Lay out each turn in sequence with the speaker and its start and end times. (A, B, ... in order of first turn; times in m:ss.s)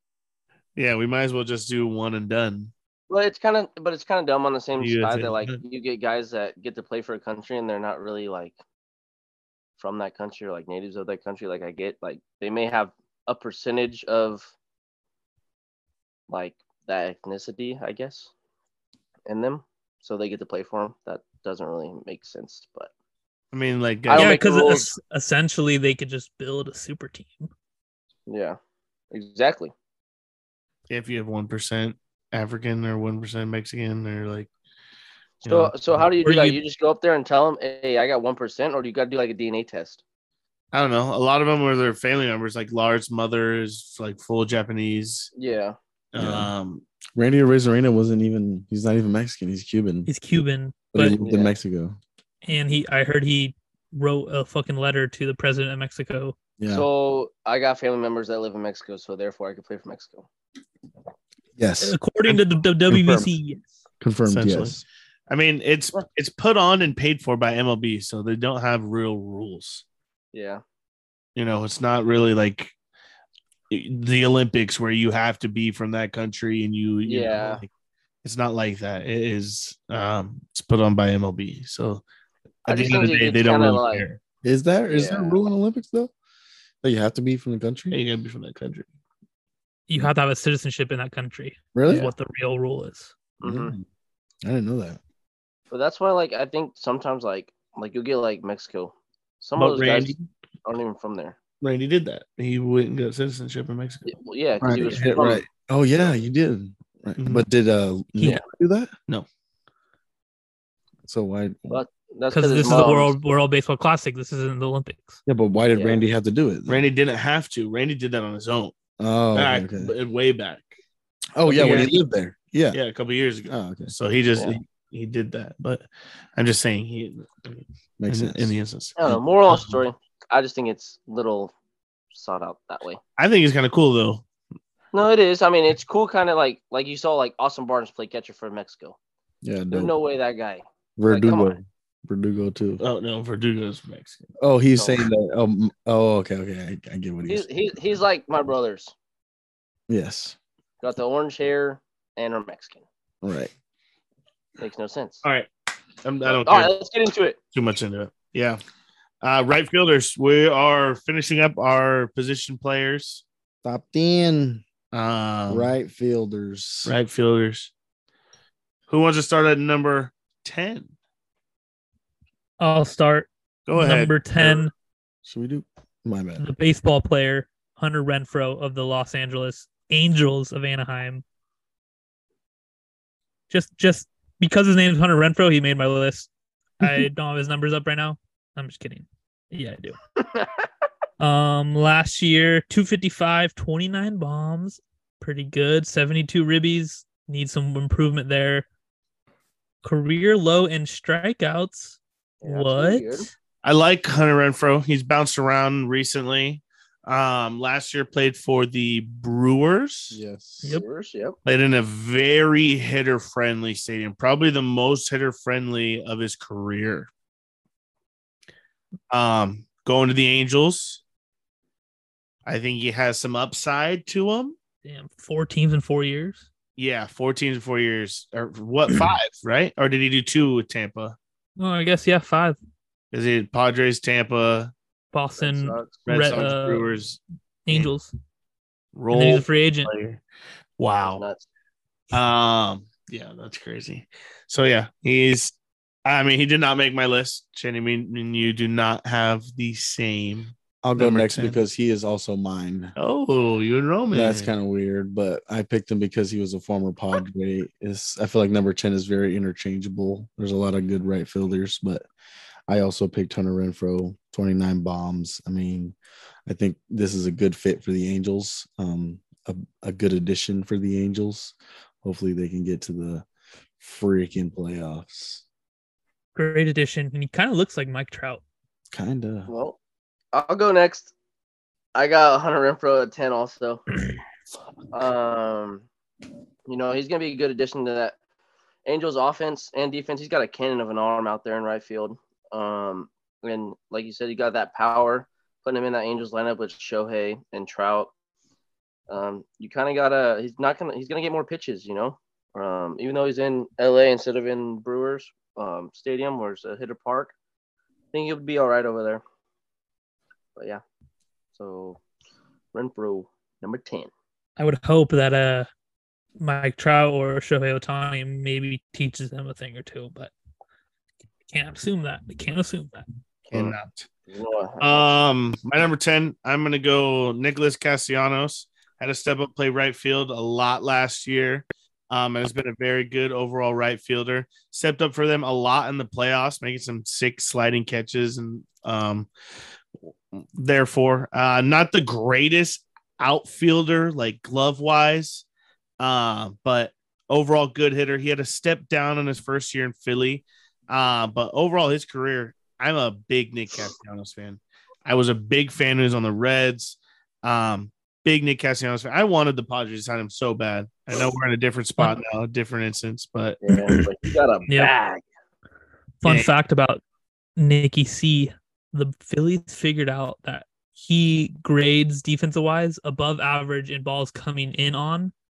0:00.8-0:02.7 A
0:03.1-0:08.6 B
0:04.8-0:05.6 A
0:09.8-0:14.5 B
0:16.3-0:18.3 B
0:19.3-0:22.9 B
0:23.5-0:24.4 A
0:24.1-0:24.9 B
0:24.1-0:27.5 C
0:28.3-0:28.6 B
0:29.1-0:29.7 B
0:30.9-0:34.5 A
0:35.4-0:40.0 B
0:35.4-0:35.8 A
0:36.2-0:36.6 C
0:40.7-0:45.3 A
0:45.3-0:45.8 B
0:46.1-0:46.8 A
0:46.2-0:46.5 D
0:47.2-0:50.1 D
0:50.1-0:51.2 C
0:50.9-0:52.0 D
0:51.2-0:51.5 B
0:52.4-0:56.4 C
0:56.6-0:56.9 D
0:56.7-1:00.3 B
1:01.6-1:02.4 D
1:01.8-1:03.8 C
1:02.9-1:03.3 D
1:04.0-1:04.8 D
1:04.3-1:09.8 A
1:10.3-1:10.6 B
1:11.4-1:12.7 A
1:13.7-1:17.7 A
1:17.0-1:17.6 B
1:18.2-1:22.0 A
1:22.7-1:24.1 B
1:22.7-1:24.2 A
1:24.4-1:26.1 D
1:24.9-1:25.4 B
1:26.8-1:28.0 D
1:27.9-1:28.9 A
1:29.9-1:33.1 C
1:31.7-1:32.1 D
1:33.4-1:33.8 B
1:33.4-1:33.8 D
1:34.4-1:35.0 D
1:35.7-1:40.1 B
1:39.6-1:40.3 A
1:40.6-1:41.4 B
1:41.6-1:44.1 A
1:44.1-1:45.4 B
1:44.6-1:48.9 D
1:47.2-1:47.5 A
1:51.0-1:51.8 D
1:51.7-1:53.1 B
1:52.3-1:55.2 C
1:55.3-1:56.8 D
1:55.7-1:56.0 B
1:56.7-1:58.8 A
1:59.0-1:59.9 D
1:59.3-2:00.7 A
2:01.4-2:02.8 D
2:01.5-2:01.9 A
2:02.7-2:09.0 A
2:03.5-2:03.9 D
2:08.0-2:08.5 D
2:09.0-2:11.5 B
2:09.5-2:09.8 A
2:12.1-2:13.0 B
2:13.2-2:14.2 A
2:14.9-2:19.0 B
2:19.4-2:19.9 D
2:19.7-2:21.6 B
2:21.0-2:22.8 D
2:22.8-2:24.3 A
2:24.4-2:27.5 D
2:24.8-2:25.0 B
2:27.3-2:28.9 B
2:29.9-2:30.4 D
2:30.8-2:32.8 B
2:33.2-2:33.5 D
2:34.6-2:35.2 B
2:35.2-2:35.5 A
2:36.0-2:36.7 A
2:36.2-2:37.4 B
2:37.5-2:38.6 A
2:39.2-2:43.2 A
2:43.6-2:44.6 D
2:44.9-2:45.7 A
2:45.5-2:46.9 D
2:46.8-2:47.7 A
2:48.9-2:50.9 A
2:52.6-2:54.7 C
2:53.7-2:54.6 A
2:55.2-2:56.4 D
2:56.4-3:01.2 C
3:03.5-3:06.3 C
3:06.8-3:10.0 C
3:11.2-3:18.7 C
3:19.8-3:23.3 C
3:22.4-3:23.3 B
3:23.6-3:30.2 A
3:30.1-3:30.8 D
3:30.6-3:31.4 B
3:31.4-3:37.1 A
3:39.1-3:41.0 A
3:42.5-3:44.6 A
3:44.8-3:46.5 C
3:46.8-3:51.2 A
3:51.6-3:52.6 C
3:53.1-3:54.7 A
3:55.1-3:56.9 C
3:55.4-3:56.0 B
3:56.0-3:57.2 A
3:57.7-3:58.1 C
3:59.0-4:00.2 A
3:59.1-3:59.9 C
4:00.8-4:01.2 A
4:01.1-4:01.4 B
4:02.1-4:11.6 A
4:10.8-4:13.0 D
4:13.0-4:14.5 A
4:14.1-4:22.1 D
4:22.7-4:26.0 D
4:26.5-4:33.3 D
4:33.8-4:35.4 D
4:36.4-4:38.4 C
4:38.9-4:39.5 D
4:39.5-4:39.8 B
4:40.3-4:41.1 B
4:42.0-4:43.8 B
4:44.9-4:45.9 B
4:46.7-4:48.2 B
4:48.8-4:58.1 B
4:59.1-5:07.3 B
5:08.1-5:09.2 B
5:10.6-5:10.8 B
5:11.6-5:12.0 B
5:12.7-5:14.1 B
5:14.6-5:15.7 C
5:16.4-5:20.3 C
5:21.5-5:23.1 C
5:23.5-5:23.8 B
5:23.5-5:24.1 A
5:24.3-5:25.1 B
5:24.8-5:39.3 A
5:40.3-5:45.4 A
5:46.0-6:03.6 A
6:03.6-6:05.2 B
6:03.8-6:04.1 C
6:06.2-6:07.0 C
6:06.2-6:06.5 A
6:07.6-6:15.3 C